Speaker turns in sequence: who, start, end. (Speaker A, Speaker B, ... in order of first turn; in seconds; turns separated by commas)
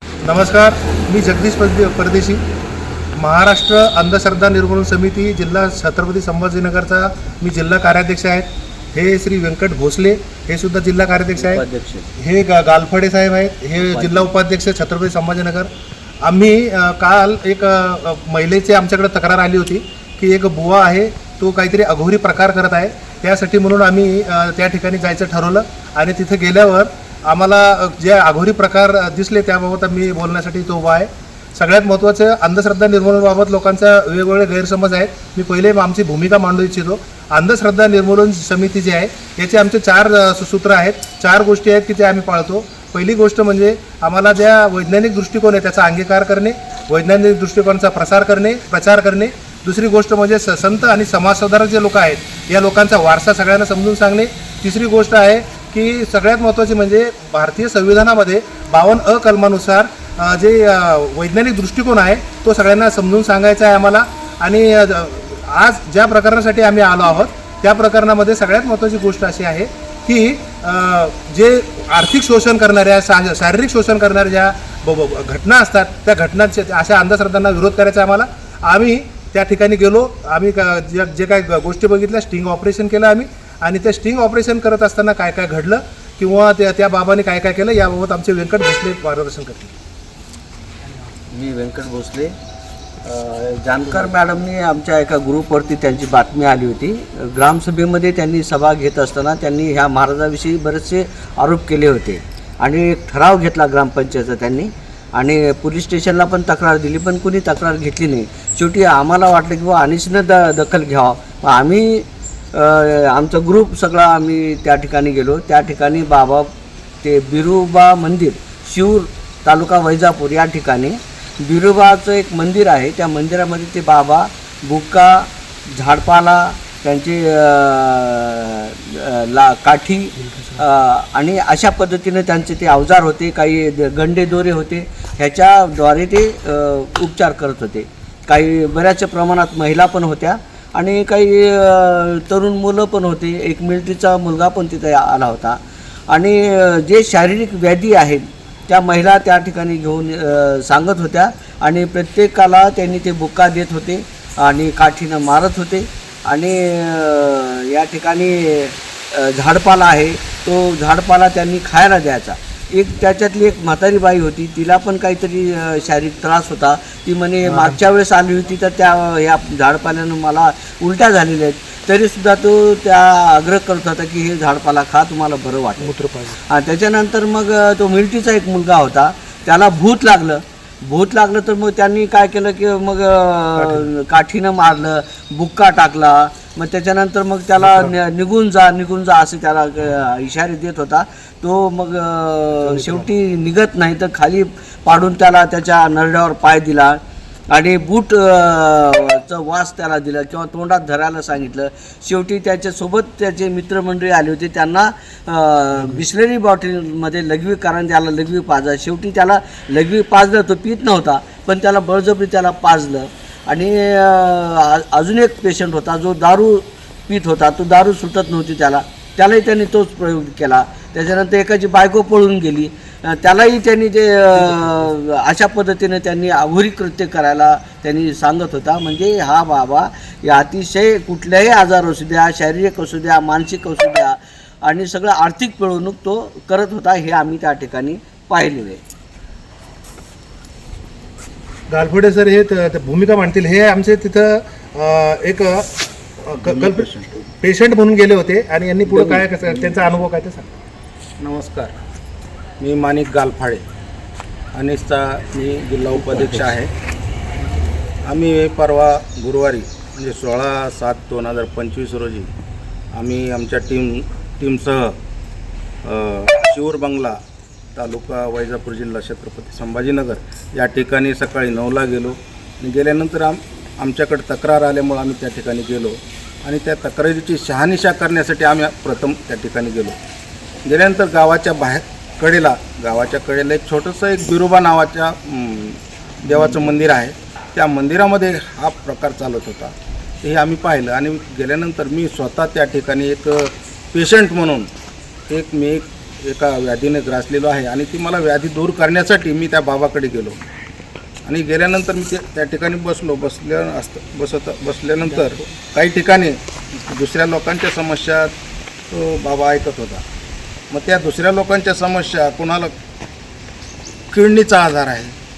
Speaker A: 0.2-2.4, Speaker A: 3.2-11.6, Speaker B: 11.3-12.1, Speaker A: 12.2-15.7, Speaker B: 13.8-14.3, Speaker A: 16.2-89.7, Speaker B: 91.3-92.3, Speaker B: 93.0-116.5, Speaker B: 117.0-175.9, Speaker A: 175.8-176.4, Speaker B: 176.5-197.0, Speaker A: 183.6-183.9, Speaker A: 192.6-193.1, Speaker B: 197.5-238.8, Speaker A: 241.7-245.7, Speaker A: 246.2-250.5, Speaker C: 246.4-247.2, Speaker C: 248.9-250.0, Speaker C: 251.2-251.7, Speaker C: 252.6-253.7, Speaker C: 254.5-256.7, Speaker B: 256.1-256.3, Speaker C: 258.0-262.3, Speaker C: 262.9-265.0, Speaker C: 265.8-267.2, Speaker C: 267.7-280.0, Speaker C: 280.6-294.7, Speaker C: 295.3-300.4, Speaker C: 301.2-308.3, Speaker C: 308.9-310.0, Speaker C: 310.7-312.7, Speaker C: 314.1-315.2